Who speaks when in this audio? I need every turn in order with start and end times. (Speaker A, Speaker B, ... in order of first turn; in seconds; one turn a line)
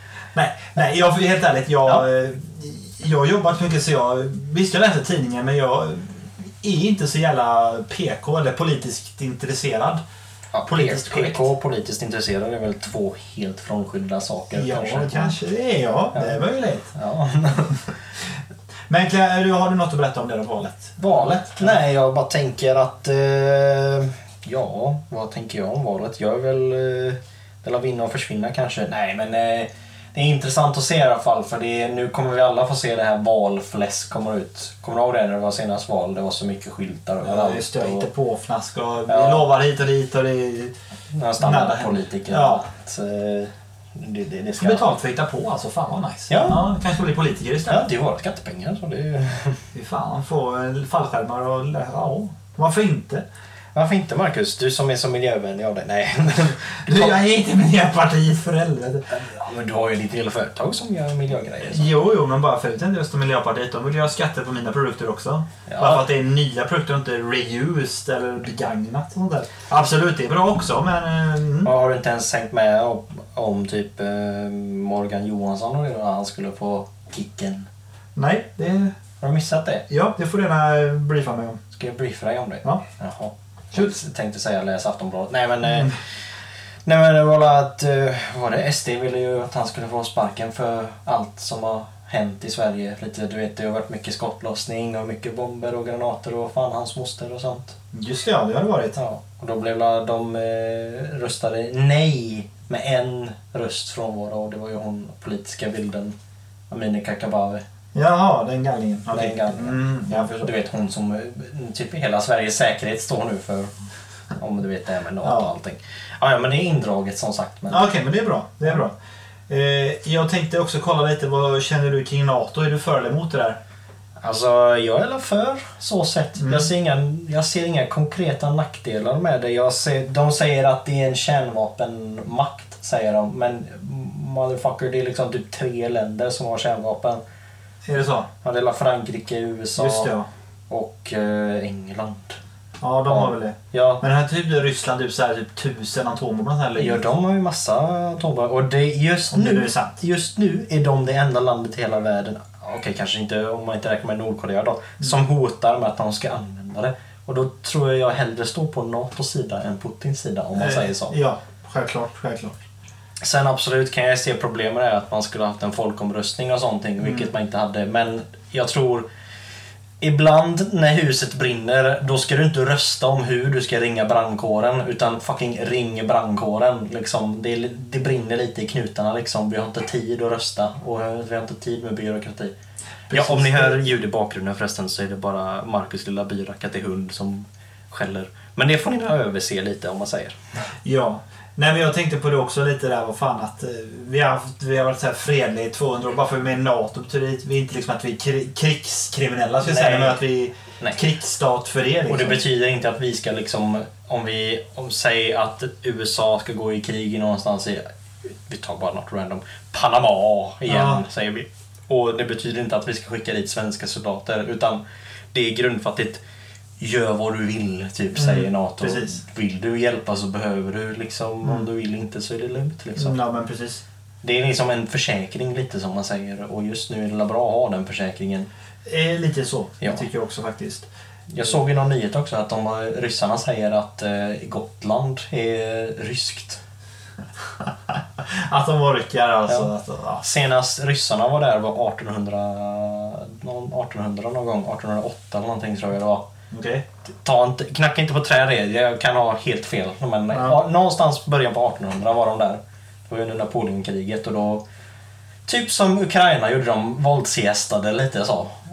Speaker A: 0.3-10.0
Speaker B: 10.5-15.3
Speaker A: 10.7-11.5
Speaker A: 14.5-16.9
Speaker B: 16.1-16.4
Speaker B: 16.9-17.8
Speaker A: 18.9-21.8
Speaker B: 21.0-38.1
Speaker A: 37.2-40.7
Speaker B: 39.1-39.5
Speaker B: 41.1-44.9
Speaker A: 41.4-42.6
Speaker A: 44.6-47.8
Speaker B: 46.3-46.7
Speaker B: 47.7-49.6
Speaker A: 49.7-53.2
Speaker B: 53.7-57.2
Speaker A: 56.8-59.1
Speaker B: 59.1-61.9
Speaker A: 61.6-71.7
Speaker B: 65.7-66.0
Speaker B: 71.6-77.7
Speaker A: 78.2-78.9
Speaker B: 79.2-79.9
Speaker A: 79.9-81.6
Speaker B: 81.7-85.9
Speaker A: 85.6-85.9
Speaker B: 86.8-97.8
Speaker A: 97.9-99.0
Speaker B: 99.0-106.1
Speaker B: 106.7-107.6
Speaker A: 107.9-110.5
Speaker B: 109.1-113.7
Speaker B: 114.4-117.9
Speaker A: 115.2-115.5
Speaker A: 117.7-118.9
Speaker A: 119.5-123.6
Speaker B: 124.2-137.2
Speaker A: 126.4-126.7
Speaker A: 137.8-138.3
Speaker B: 138.4-140.1
Speaker A: 139.8-140.3
Speaker B: 140.7-142.4
Speaker A: 142.8-147.1
Speaker B: 143.1-144.0
Speaker B: 146.8-161.1
Speaker A: 149.3-150.0
Speaker A: 160.6-162.6
Speaker B: 163.2-169.1
Speaker A: 167.0-167.3
Speaker B: 170.0-182.5
Speaker A: 183.1-183.8
Speaker B: 183.1-190.4
Speaker A: 190.8-202.4
Speaker B: 199.6-200.2
Speaker B: 202.1-207.8
Speaker B: 208.4-214.8
Speaker A: 210.7-211.0
Speaker B: 215.3-216.2
Speaker B: 216.8-223.2
Speaker A: 218.1-219.2
Speaker A: 223.0-223.8
Speaker B: 224.2-228.5
Speaker A: 228.8-230.9
Speaker B: 231.3-236.6
Speaker A: 237.7-240.2
Speaker B: 239.5-246.3
Speaker A: 246.5-246.8
Speaker B: 247.1-254.6
Speaker A: 250.3-250.6
Speaker B: 255.5-258.6